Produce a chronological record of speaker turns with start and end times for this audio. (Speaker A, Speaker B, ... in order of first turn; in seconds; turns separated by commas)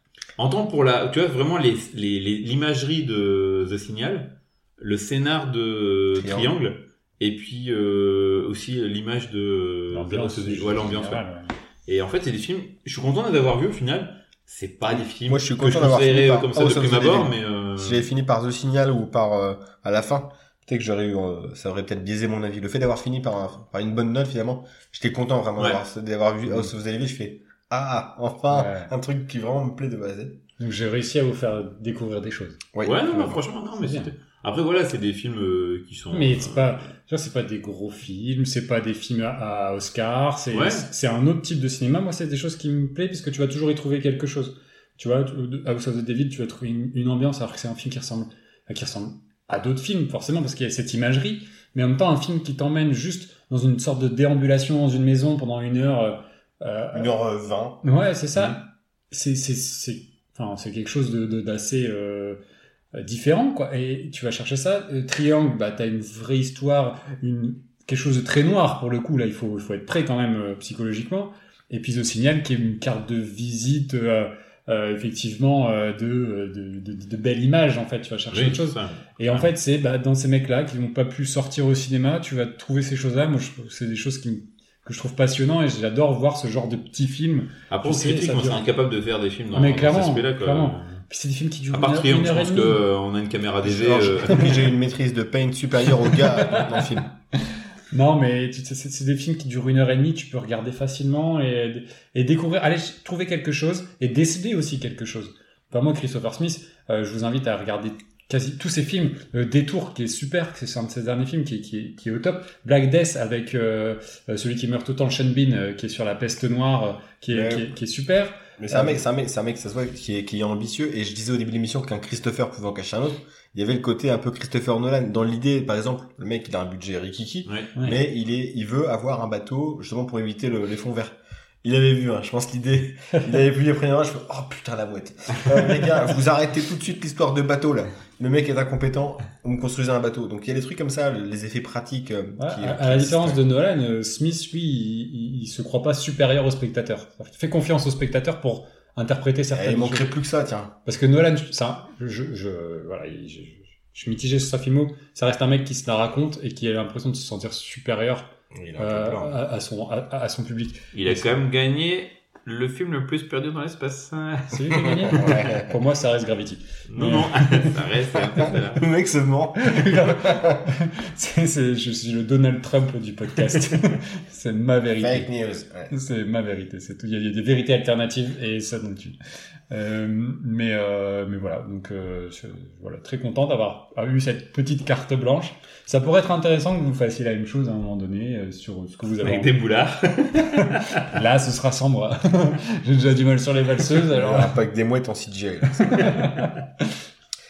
Speaker A: 0.4-11.2, Speaker B: 6.1-6.5, Speaker C: 9.9-11.6, Speaker A: 11.8-18.1, Speaker B: 15.2-30.4, Speaker C: 28.5-28.9, Speaker C: 30.6-32.6, Speaker B: 32.7-33.4, Speaker A: 32.8-36.7, Speaker C: 33.8-34.1, Speaker C: 36.1-57.1, Speaker A: 40.5-40.9, Speaker B: 56.9-57.8, Speaker C: 57.8-62.4, Speaker C: 62.9-88.6, Speaker A: 78.3-79.5, Speaker A: 87.7-91.0, Speaker C: 89.5-92.8, Speaker A: 91.7-94.6, Speaker B: 93.6-97.1, Speaker C: 96.3-96.8, Speaker C: 97.4-119.0, Speaker B: 117.3-117.7, Speaker B: 118.6-143.4, Speaker A: 127.5-127.7, Speaker C: 142.4-150.1, Speaker B: 149.5-150.7, Speaker C: 150.8-161.3, Speaker B: 158.5-159.4, Speaker A: 160.9-165.2, Speaker C: 164.5-167.8, Speaker B: 164.7-165.7, Speaker A: 166.9-168.8, Speaker B: 168.4-170.7, Speaker C: 169.6-175.3, Speaker B: 175.0-175.9, Speaker C: 175.9-179.2, Speaker C: 179.7-189.5, Speaker A: 189.2-191.1, Speaker C: 190.4-194.6, Speaker B: 194.1-196.3, Speaker C: 195.8-196.5